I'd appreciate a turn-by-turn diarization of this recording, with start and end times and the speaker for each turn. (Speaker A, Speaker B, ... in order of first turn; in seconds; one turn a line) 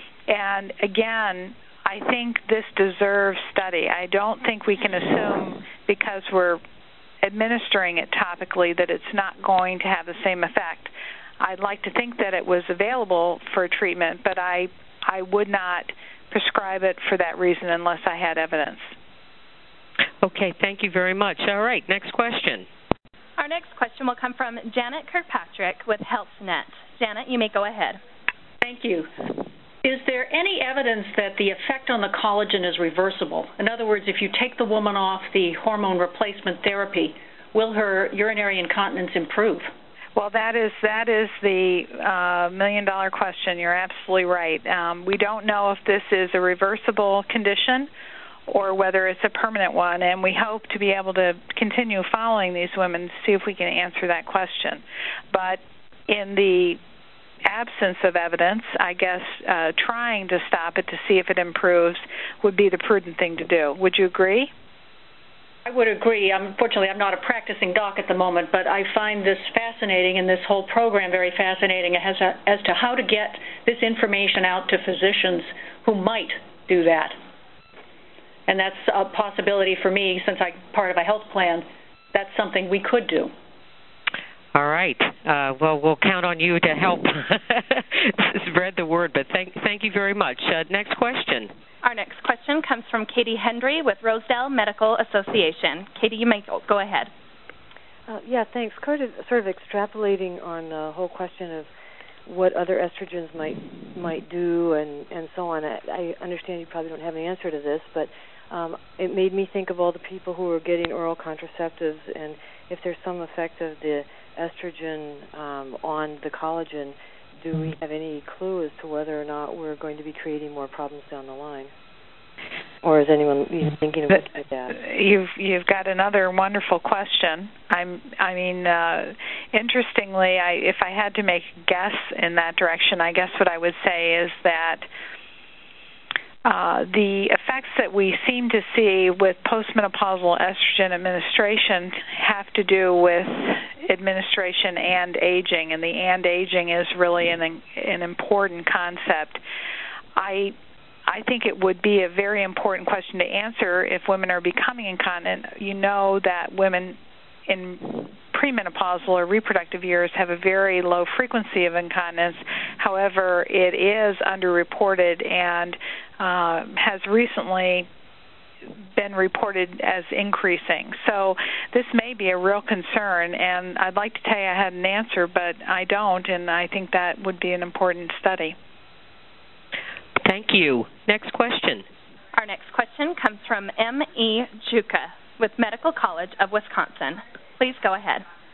Speaker A: 0.3-6.6
Speaker A: 7.2-18.9
Speaker B: 20.2-22.7
Speaker C: 23.4-28.0
Speaker D: 28.6-29.2
Speaker D: 29.8-39.7
Speaker A: 40.2-47.9
Speaker A: 48.5-56.8
Speaker A: 57.5-64.5
Speaker D: 65.7-77.2
Speaker D: 78.5-83.3
Speaker B: 84.5-91.5
Speaker C: 91.8-97.1
Speaker E: 98.1-101.7
Speaker E: 102.2-121.7
Speaker E: 122.8-124.8
Speaker A: 124.8-134.9
Speaker A: 136.4-149.4
Speaker A: 150.2-150.6
Speaker A: 151.1-167.9
Speaker A: 168.9-178.6
Speaker B: 180.2-181.8
Speaker C: 182.3-188.2